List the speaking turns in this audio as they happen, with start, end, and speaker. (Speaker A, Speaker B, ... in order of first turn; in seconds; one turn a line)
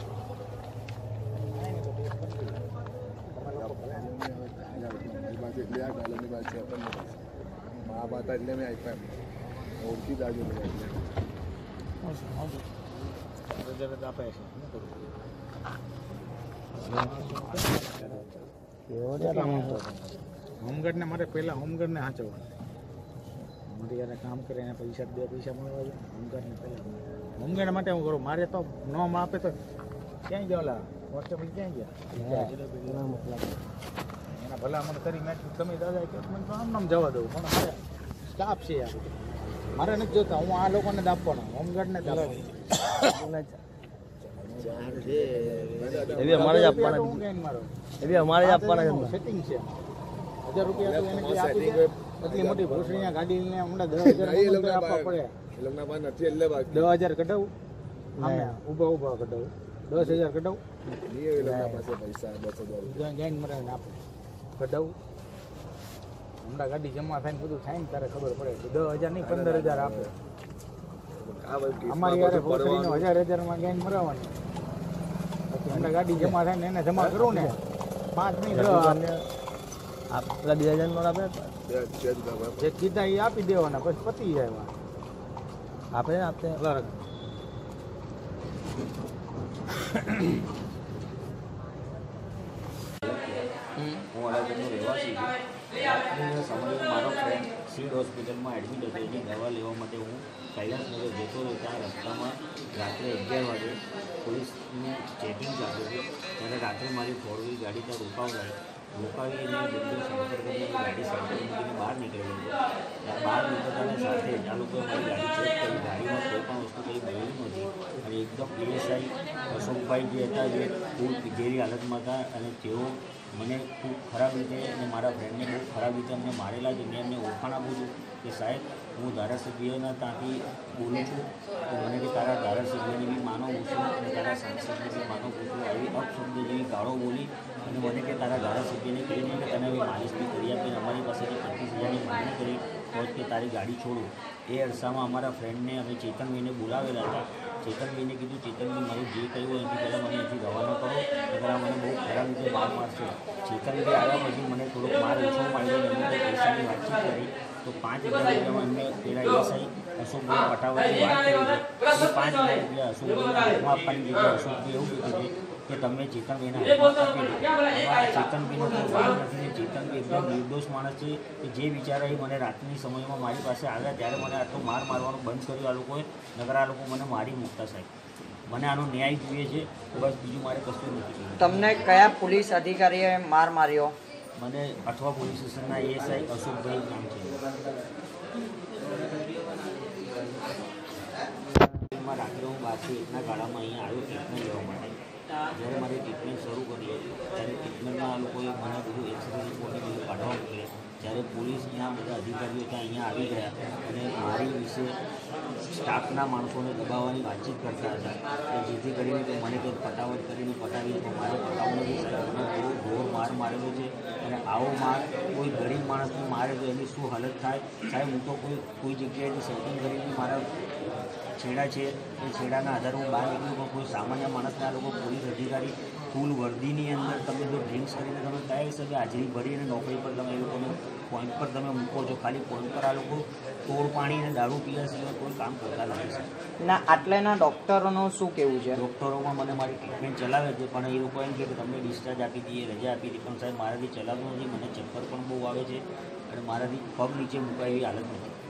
Speaker A: 1.4-2.6
Speaker A: 3.3-4.1
Speaker B: 3.5-7.3
Speaker B: 7.8-9.2
Speaker B: 9.8-11.1
Speaker C: 12.1-12.6
Speaker A: 13.5-15.1
Speaker A: 16.8-18.3
Speaker C: 16.9-18.2
Speaker C: 18.9-19.8
Speaker A: 19.2-19.9
Speaker A: 20.6-22.5
Speaker A: 23.7-29.6
Speaker A: 30.3-33.0
Speaker C: 32.1-33.6
Speaker A: 34.3-42.5
Speaker C: 42.0-43.6
Speaker B: 44.2-46.9
Speaker C: 44.7-47.2
Speaker A: 46.3-49.9
Speaker C: 48.0-49.2
Speaker A: 50.4-55.3
Speaker B: 50.6-53.2
Speaker B: 54.0-57.0
Speaker A: 56.7-57.5
Speaker C: 58.2-58.6
Speaker A: 58.2-60.6
Speaker B: 60.0-60.2
Speaker B: 60.9-63.0
Speaker A: 61.4-61.8
Speaker A: 62.9-64.0
Speaker A: 64.6-65.0
Speaker A: 66.4-70.1
Speaker B: 69.2-70.1
Speaker B: 71.2-73.1
Speaker A: 71.9-74.4
Speaker A: 75.5-77.6
Speaker C: 75.7-76.4
Speaker C: 77.1-77.6
Speaker A: 78.1-79.0
Speaker C: 78.5-79.3
Speaker C: 80.1-81.5
Speaker B: 81.7-82.7
Speaker A: 82.6-84.7
Speaker C: 85.9-86.6
Speaker A: 86.6-87.0
Speaker D: 93.0-93.5
Speaker E: 93.8-94.0
Speaker D: 94.1-177.9
Speaker D: 178.5-181.8
Speaker E: 181.4-183.9
Speaker D: 184.4-187.4
Speaker D: 191.9-195.0
Speaker D: 195.5-205.0
Speaker D: 205.7-220.5
Speaker D: 221.4-236.3
Speaker E: 236.6-238.8
Speaker D: 238.7-248.3